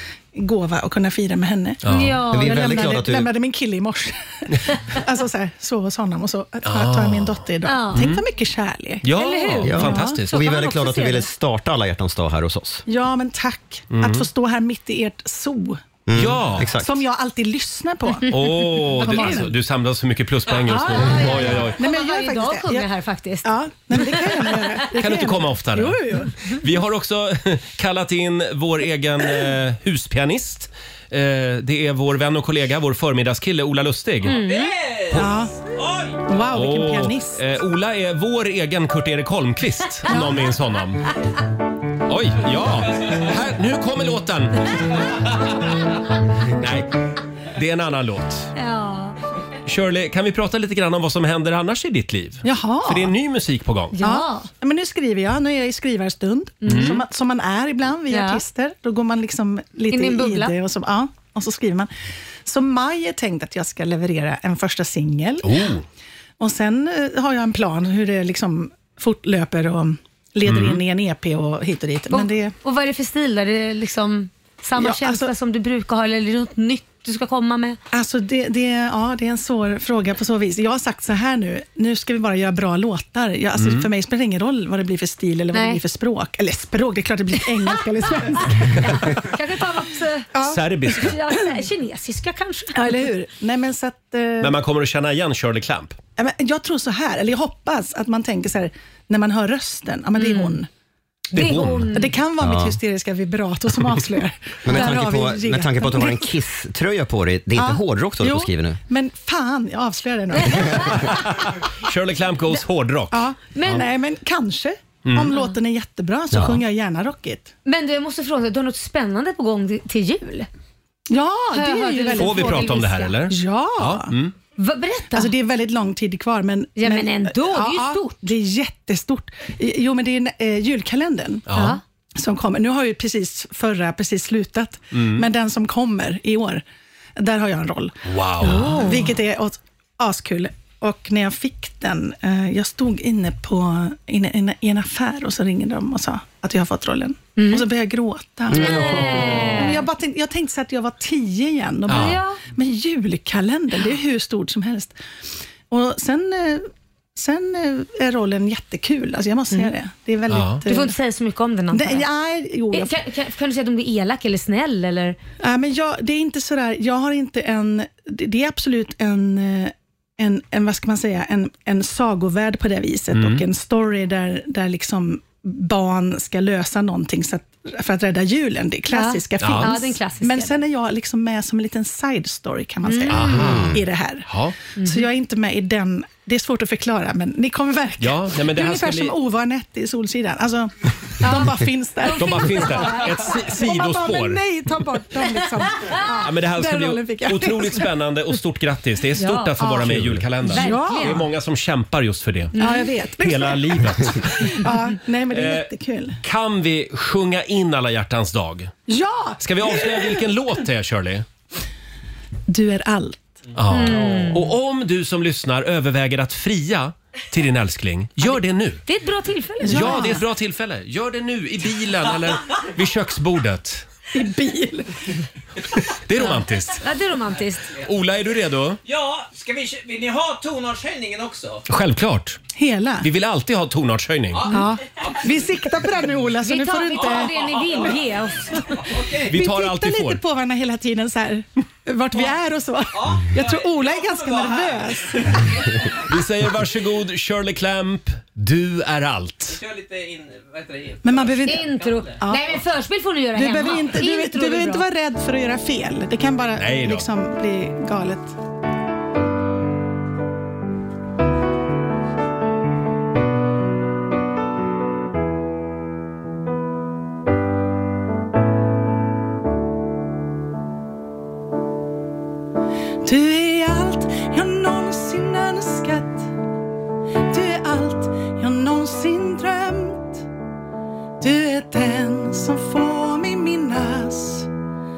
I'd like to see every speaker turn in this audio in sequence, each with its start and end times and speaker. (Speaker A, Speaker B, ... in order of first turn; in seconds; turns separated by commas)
Speaker A: 0.3-1.8, Speaker B: 1.8-2.2, Speaker C: 1.9-3.0, Speaker D: 2.3-3.3, Speaker A: 2.4-10.2, Speaker B: 6.7-7.4, Speaker C: 7.7-8.1, Speaker B: 7.9-8.2, Speaker B: 9.0-10.4, Speaker C: 9.1-11.3, Speaker D: 9.6-12.8, Speaker A: 12.9-15.8, Speaker B: 13.9-14.3, Speaker D: 16.1-17.0, Speaker B: 16.1-16.7, Speaker A: 16.7-19.5, Speaker B: 18.3-21.8, Speaker A: 20.7-22.9, Speaker C: 20.8-24.7, Speaker A: 23.4-26.3, Speaker B: 25.0-34.4, Speaker C: 34.3-34.7, Speaker E: 34.3-36.2, Speaker A: 35.1-35.5, Speaker A: 36.3-37.4, Speaker B: 36.5-41.0, Speaker B: 42.1-45.3, Speaker B: 46.5-46.9, Speaker B: 47.5-48.5, Speaker C: 48.6-49.2, Speaker B: 49.7-54.0, Speaker A: 52.4-53.1, Speaker C: 53.9-54.5, Speaker A: 54.0-61.9, Speaker C: 56.6-57.0, Speaker B: 56.7-57.0, Speaker C: 58.1-58.4, Speaker C: 59.9-60.5, Speaker A: 62.5-65.6, Speaker B: 65.4-65.8, Speaker A: 66.4-72.5, Speaker B: 70.5-70.8, Speaker C: 72.1-77.8, Speaker A: 74.8-75.3, Speaker A: 77.9-89.2, Speaker B: 83.6-83.9, Speaker C: 85.5-85.8, Speaker C: 88.6-90.3, Speaker A: 90.3-91.1, Speaker B: 90.4-91.2, Speaker C: 91.0-93.1, Speaker A: 92.8-94.6, Speaker B: 94.4-96.0, Speaker A: 96.2-100.7, Speaker C: 100.2-100.6, Speaker C: 101.3-102.2, Speaker B: 101.3-101.9, Speaker A: 101.9-106.3, Speaker D: 102.4-102.8, Speaker D: 104.6-108.8, Speaker A: 107.6-111.1, Speaker C: 110.4-111.0, Speaker B: 111.0-113.2, Speaker A: 113.1-117.5, Speaker C: 113.5-113.8, Speaker B: 115.0-115.3, Speaker D: 116.3-116.6, Speaker C: 117.7-120.5, Speaker A: 121.1-124.2, Speaker C: 121.5-123.2, Speaker B: 122.2-124.3, Speaker C: 124.6-125.3, Speaker A: 125.1-131.5, Speaker C: 126.8-128.3, Speaker B: 131.5-131.8, Speaker C: 131.5-131.8, Speaker A: 132.2-136.6, Speaker B: 134.9-135.2, Speaker A: 137.2-155.0, Speaker B: 138.1-138.8, Speaker C: 138.4-139.1, Speaker C: 147.4-147.7, Speaker C: 148.5-149.9, Speaker D: 148.6-149.3, Speaker B: 151.9-152.2, Speaker C: 151.9-152.4, Speaker A: 155.7-160.9, Speaker B: 160.3-160.7, Speaker C: 160.7-162.1, Speaker A: 161.7-162.9, Speaker C: 162.7-165.2, Speaker A: 165.4-184.3, Speaker B: 173.1-173.4, Speaker C: 178.9-180.5, Speaker B: 179.4-179.7, Speaker C: 182.8-183.6, Speaker B: 183.1-184.6, Speaker D: 183.4-183.8, Speaker C: 184.8-185.1, Speaker A: 184.8-197.9, Speaker B: 188.0-189.1, Speaker C: 191.2-193.4, Speaker B: 192.2-194.4, Speaker B: 196.2-202.6, Speaker C: 199.2-199.8, Speaker D: 199.9-200.2, Speaker A: 200.4-201.3, Speaker C: 200.5-201.2, Speaker C: 202.6-202.9, Speaker A: 202.6-206.2, Speaker B: 203.2-204.7, Speaker B: 205.3-205.7, Speaker B: 206.2-208.7, Speaker A: 208.9-210.2, Speaker B: 209.4-211.2, Speaker A: 212.5-213.3, Speaker B: 213.6-218.8, Speaker C: 213.7-214.4, Speaker C: 218.9-220.2, Speaker A: 219.6-220.2, Speaker B: 219.7-223.8, Speaker A: 224.1-224.9, Speaker B: 226.1-226.9, Speaker C: 226.2-227.7, Speaker E: 227.3-227.9, Speaker B: 227.8-228.8, Speaker E: 228.8-231.7, Speaker B: 231.7-232.4, Speaker A: 232.6-233.1, Speaker B: 233.0-234.5, Speaker E: 234.3-235.5, Speaker A: 234.5-237.3, Speaker C: 236.4-238.8, Speaker E: 236.9-238.0, Speaker E: 238.7-239.3, Speaker A: 239.2-245.5, Speaker B: 239.3-240.2, Speaker E: 242.9-246.0, Speaker B: 246.1-249.6, Speaker E: 249.5-252.3, Speaker A: 251.0-251.6, Speaker C: 251.4-254.8, Speaker A: 252.2-252.6, Speaker A: 253.3-258.4, Speaker B: 256.6-257.1, Speaker A: 273.0-276.3, Speaker A: 277.3-280.3, Speaker A: 281.2-284.5